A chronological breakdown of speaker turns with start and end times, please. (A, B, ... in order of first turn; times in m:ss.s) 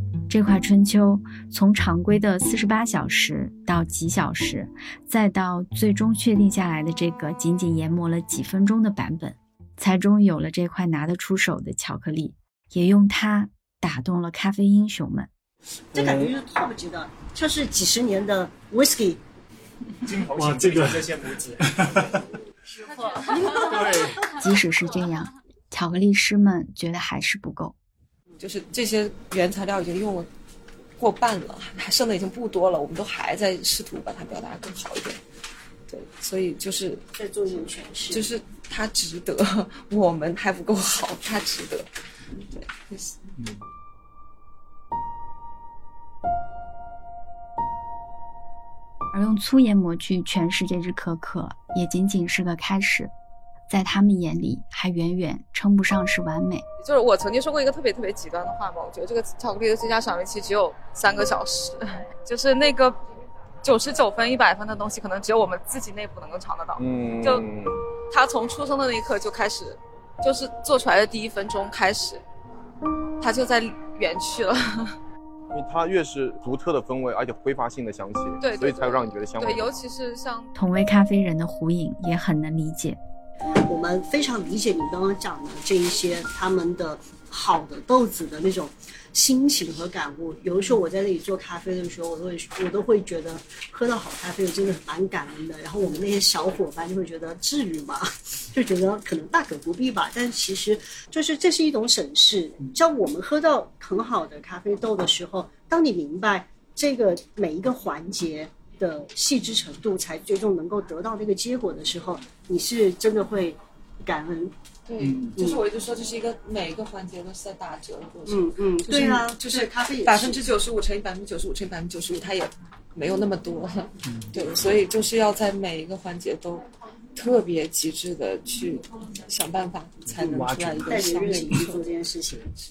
0:00.3-0:15.3 A
0:15.9-0:19.2 B
0:16.0-0:16.3 C
0:20.4-0:22.1 C
0:24.4-0:27.8 A
0:28.4-0:30.3 D
0:31.0-0:35.2 D
0:35.9-0:37.0 D
0:37.1-0:38.3 B
0:38.1-0:43.2 D
0:49.1-0:53.1 A
0:53.7-0:56.6 A
0:56.8-1:03.0 D
1:03.6-1:07.5 D
1:06.8-1:07.8 E
1:08.1-1:12.2 D
1:13.2-1:15.0 D
1:15.5-1:19.8 E
1:18.4-1:20.5 D
1:20.6-1:23.0 A
1:23.7-1:54.5 B
1:54.9-2:11.9 D
1:55.0-1:55.3 C
1:55.4-1:55.6 B
1:58.3-2:00.5 B
2:10.1-2:11.2 C
2:10.2-2:12.5 B